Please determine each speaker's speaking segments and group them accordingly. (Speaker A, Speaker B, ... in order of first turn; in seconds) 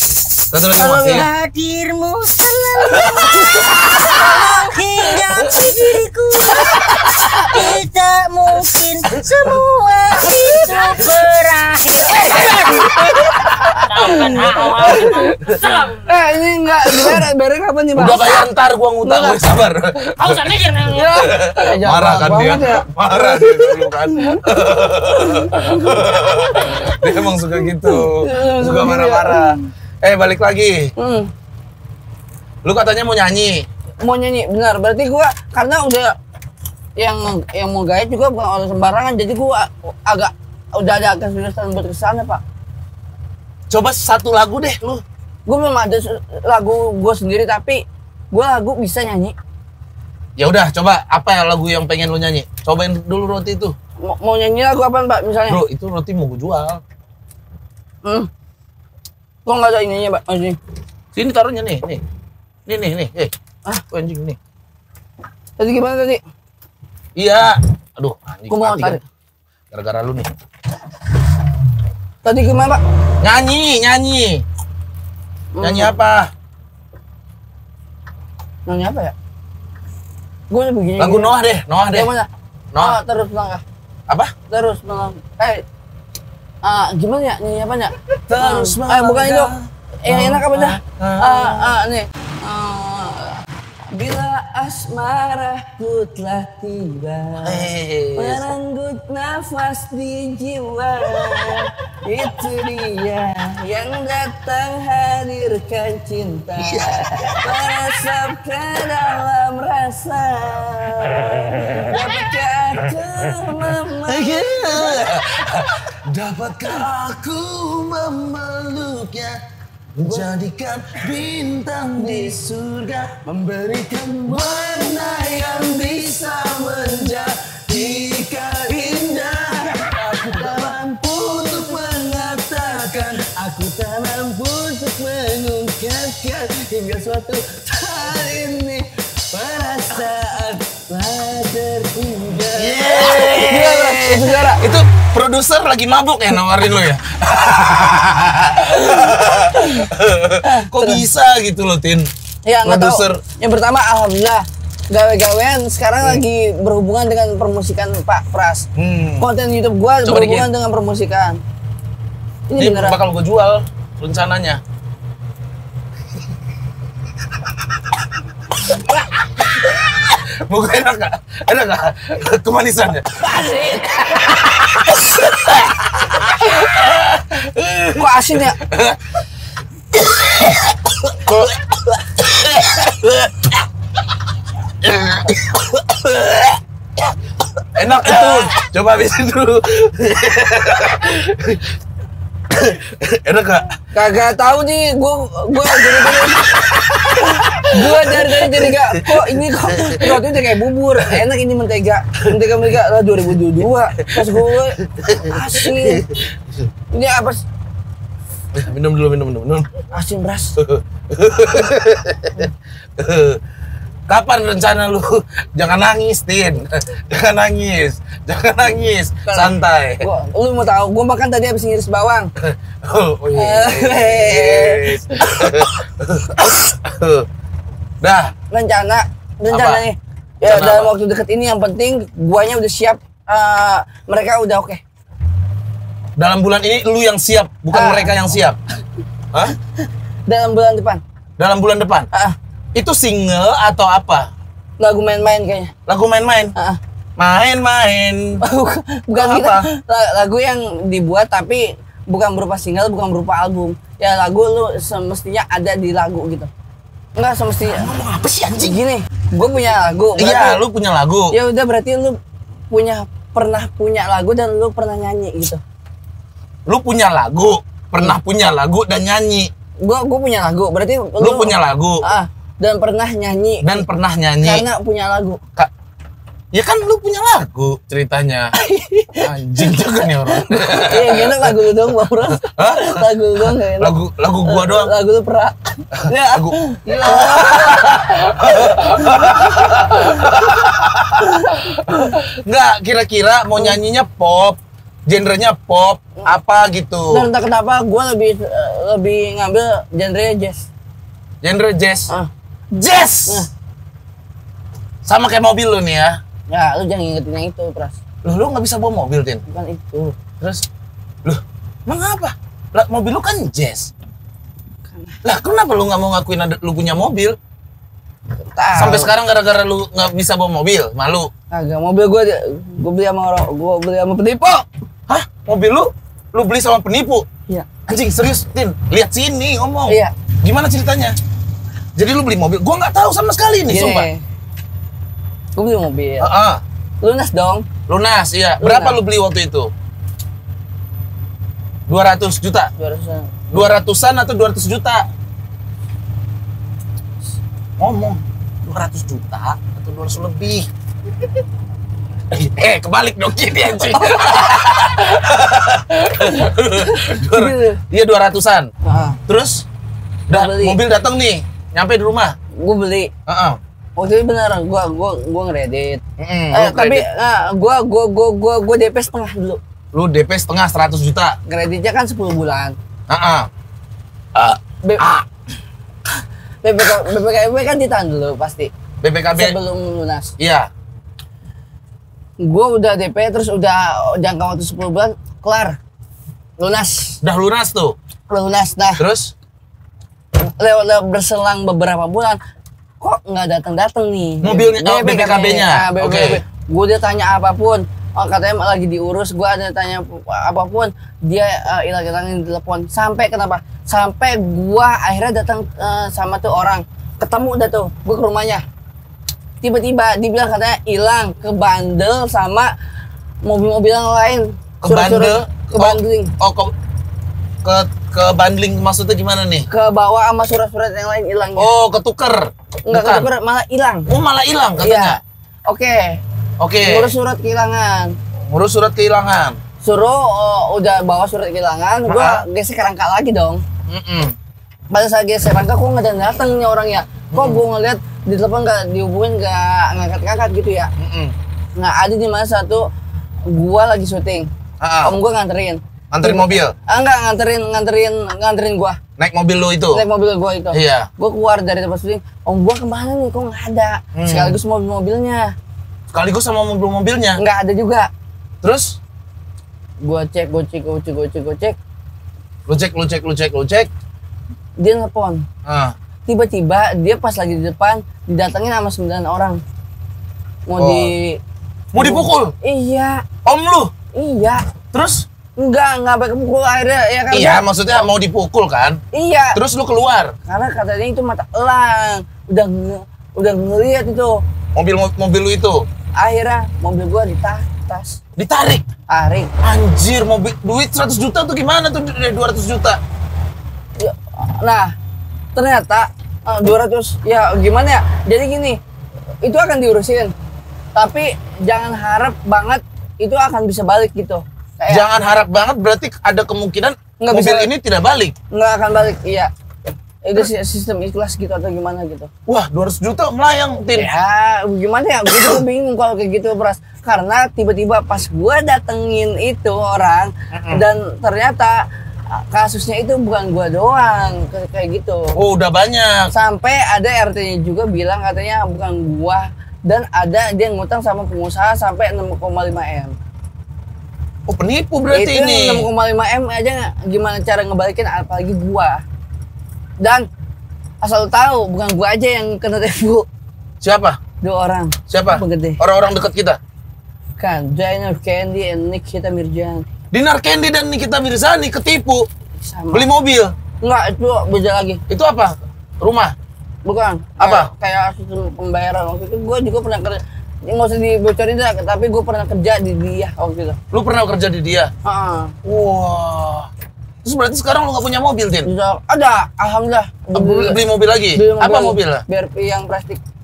Speaker A: 0.5-1.3, 2.9-4.4, 9.2-9.6, 10.3-10.8, 12.1-13.8, 16.9-17.2, 17.9-20.5, 21.1-30.9, 32.6-33.7, 43.7-45.0, 50.4-53.8, 55.5-56.8, 61.1-62.0, 62.7-63.3, 63.9-64.4, 67.2-69.0, 69.7-70.3, 73.2-74.4, 75.6-76.3, 81.0-82.1, 82.7-83.0, 88.3-91.7, 97.4-98.4, 106.6-107.5, 114.0-119.4, 120.0-133.2, 142.5-152.1, 152.6-153.2, 158.8-159.3, 160.0-160.5, 162.6-164.6, 169.4-173.4, 173.9-179.0, 180.0-183.6, 184.8-186.6, 187.7-191.7, 192.5-193.7, 195.9-200.2, 204.0-206.7, 208.5-209.7, 210.6-213.4, 214.1-220.1, 222.4-227.3, 228.0-228.3, 229.5-229.8, 230.4-230.9, 236.2-238.6, 241.4-242.1, 242.7-244.3, 245.9-246.5, 247.2-248.4, 249.1-249.7, 257.7-258.8, 260.1-261.4, 266.6-269.5, 271.2-272.0, 273.6-274.6, 276.5-278.5, 279.1-281.7, 282.4-284.9, 286.3-297.3, 301.4-302.1, 302.7-303.5, 305.0-306.2, 308.2-309.4, 310.4-310.6, 311.2-313.9, 315.2-317.4, 318.7-321.3, 325.1-327.2, 327.9-331.1, 331.9-334.1, 336.2-336.6, 337.9-339.7, 341.9-342.7, 343.5-345.1, 347.8-350.7, 352.3-358.7, 359.2-359.6, 360.3-362.3, 363.3-363.6, 366.2-367.1, 369.9-371.4, 373.1-373.5, 374.3-375.2, 379.0-379.6, 380.4-380.7, 387.2-387.9, 389.0-389.3, 394.4-396.4, 414.8-416.7, 417.6-419.7, 421.6-423.3, 424.1-425.2, 426.6-427.1, 428.4-429.6, 432.1-432.4, 433.9-434.3, 437.3-437.6, 441.0-441.3, 444.8-445.1, 446.1-446.7, 449.2-450.0, 450.7-451.1, 454.1-454.6, 456.1-457.4, 458.6-459.0, 462.7-463.9, 465.6-465.9, 470.8-471.1, 471.9-472.5, 473.4-473.9, 474.9-475.2, 477.3-479.0, 479.5-480.3, 484.7-485.9, 488.4-488.9, 489.6-493.0, 504.9-508.3, 512.5-514.1, 515.3-515.6, 520.5-520.8, 525.4-526.3, 534.5-535.9, 543.8-544.2, 545.1-546.6, 550.1-552.3, 552.9-553.5, 555.1-556.3, 557.4-557.7, 563.9-564.9, 565.6-566.7, 567.2-568.7, 570.3-572.2
Speaker B: 0.8-1.2, 6.6-7.3, 12.9-15.4, 16.1-18.4, 19.0-19.4, 20.9-29.7, 31.0-31.3, 34.0-36.1, 37.0-42.4, 45.5-49.4, 54.0-55.6, 58.0-58.3, 59.4-60.6, 65.6-66.2, 68.5-69.0, 72.2-72.8, 75.5-76.0, 78.7-79.1, 80.5-81.3, 81.9-83.6, 84.5-85.6, 86.6-115.0, 120.0-120.4, 122.0-122.4, 123.3-125.9, 126.5-144.6, 149.6-149.8, 150.4-151.0, 152.4-158.7, 159.2-161.4, 162.5-163.0, 173.2-174.2, 177.9-178.6, 188.0-188.5, 193.9-196.5, 197.4-206.0, 206.9-207.4, 209.9-210.6, 219.2-222.3, 223.3-225.4, 228.5-234.8, 237.7-238.2, 240.3-241.0, 244.8-245.7, 248.4-256.5, 257.1-257.9, 258.6-260.6, 261.3-262.2, 262.7-265.6, 269.8-273.8, 274.4-275.4, 278.5-279.3, 280.2-290.4, 291.2-292.2, 297.1-300.7, 306.5-308.0, 309.5-310.2, 314.9-315.2, 318.5-319.1, 321.5-324.6, 329.9-330.1, 333.6-334.2, 335.6-336.3, 337.0-337.7, 338.6-339.0, 342.8-343.3, 354.0-355.2, 356.1-357.8, 358.8-359.2, 360.3-360.8, 362.6-363.1, 364.0-369.6, 371.4-372.8, 376.6-378.7, 379.3-380.3, 382.4-385.8, 386.6-387.2, 388.3-389.0, 390.4-392.4, 393.0-408.6, 409.6-412.7, 413.4-416.3, 419.7-421.7, 422.9-424.1, 424.8-426.2, 426.8-428.1, 429.8-433.6, 434.9-440.9, 441.8-442.9, 443.4-444.5, 445.0-449.0, 449.9-455.5, 457.4-458.1, 460.0-461.8, 464.8-465.4, 466.3-469.6, 470.7-471.4, 472.0-473.2, 474.1-474.6, 475.6-477.7, 479.1-479.6, 480.4-484.4, 486.2-488.2, 489.1-489.5, 494.0-494.9, 495.5-498.8, 499.4-500.3, 500.9-505.1, 507.2-507.7, 508.5-509.5, 510.2-512.3, 513.9-525.3, 526.3-533.1, 535.1-539.0, 540.0-540.3, 541.0-543.3, 544.4-545.8, 547.4-549.9, 552.6-553.1, 553.8-555.0, 556.8-563.8, 565.0-565.5, 568.6-570.8, 571.3-573.2
Speaker C: 0.8-13.0, 13.8-16.1, 20.1-21.3